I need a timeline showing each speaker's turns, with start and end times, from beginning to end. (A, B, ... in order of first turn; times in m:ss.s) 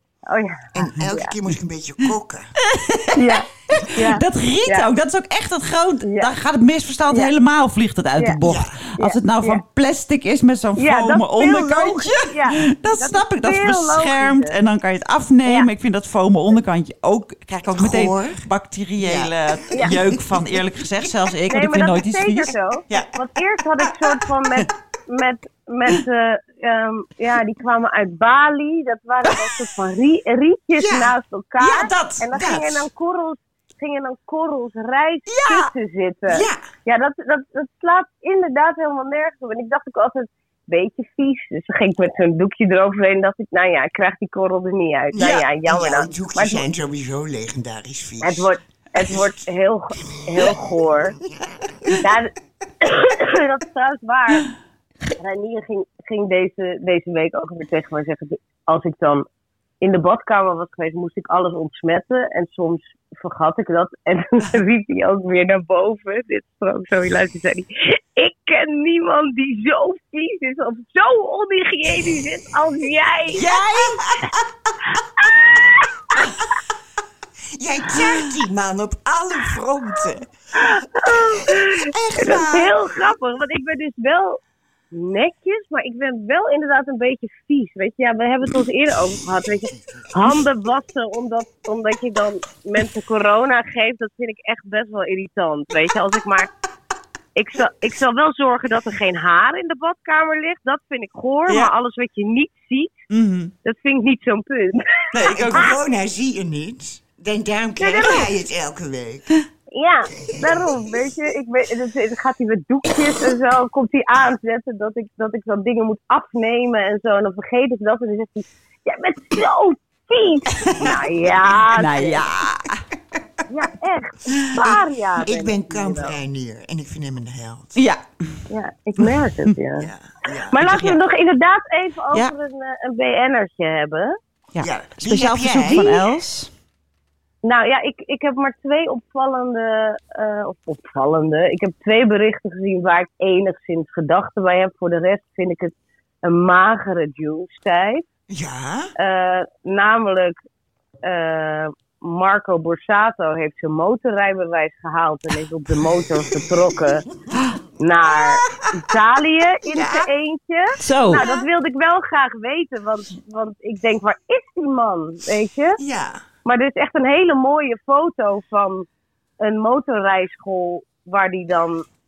0:00.3-0:01.3 A
0:00.7-0:02.5 B
0:02.7-0:03.2 C
0:03.1-0:04.9 A
0:03.9-0:23.1 C
0:06.0-0:06.3 A
0:08.4-0:08.8 B
0:09.0-0:09.6 A
0:10.8-0:14.5 A
0:17.7-0:18.4 B
0:19.0-0:20.6 B
0:21.5-0:46.6 A
0:23.8-0:24.2 B
0:30.8-0:32.9 B
0:35.3-0:35.7 B
0:36.3-0:36.6 B
0:45.1-0:49.3 B
0:48.2-0:51.2 A
0:50.1-0:52.1 B
0:52.0-0:54.5 A
0:55.2-0:59.2 A
0:59.8-1:13.5 A
1:13.3-1:14.8 B
1:15.2-1:16.3 A
1:17.5-1:20.3 B
1:20.5-1:24.4 A
1:21.0-1:22.8 B
1:24.9-1:36.5 A
1:29.9-1:30.5 B
1:37.3-1:43.0 A
1:43.1-1:43.5 C
1:43.6-1:45.7 A
1:45.1-1:45.7 C
1:45.2-1:49.3 B
1:47.8-1:48.3 A
1:49.7-2:02.2 A
1:50.3-1:50.9 B
1:52.9-1:53.2 B
2:00.7-2:01.6 B
2:01.7-2:02.8 C
2:03.5-2:06.2 A
2:04.6-2:07.8 B
2:07.8-2:08.4 C
2:08.5-2:09.9 A
2:09.8-2:10.8 B
2:10.5-2:14.1 A
2:10.6-2:11.0 C
2:14.5-2:16.5 C
2:14.6-2:15.8 B
2:15.7-2:16.0 A
2:17.4-2:28.0 A
2:28.3-2:28.9 B
2:29.0-2:30.3 A
2:31.0-2:37.0 A
2:35.7-2:36.9 B
2:37.3-2:37.6 C
2:37.8-2:45.8 A
2:38.1-2:38.8 B
2:39.6-2:40.1 B
2:40.8-2:41.2 C
2:41.2-2:41.5 B
2:45.8-2:46.2 B
2:46.4-2:48.8 A
2:49.4-2:51.8 A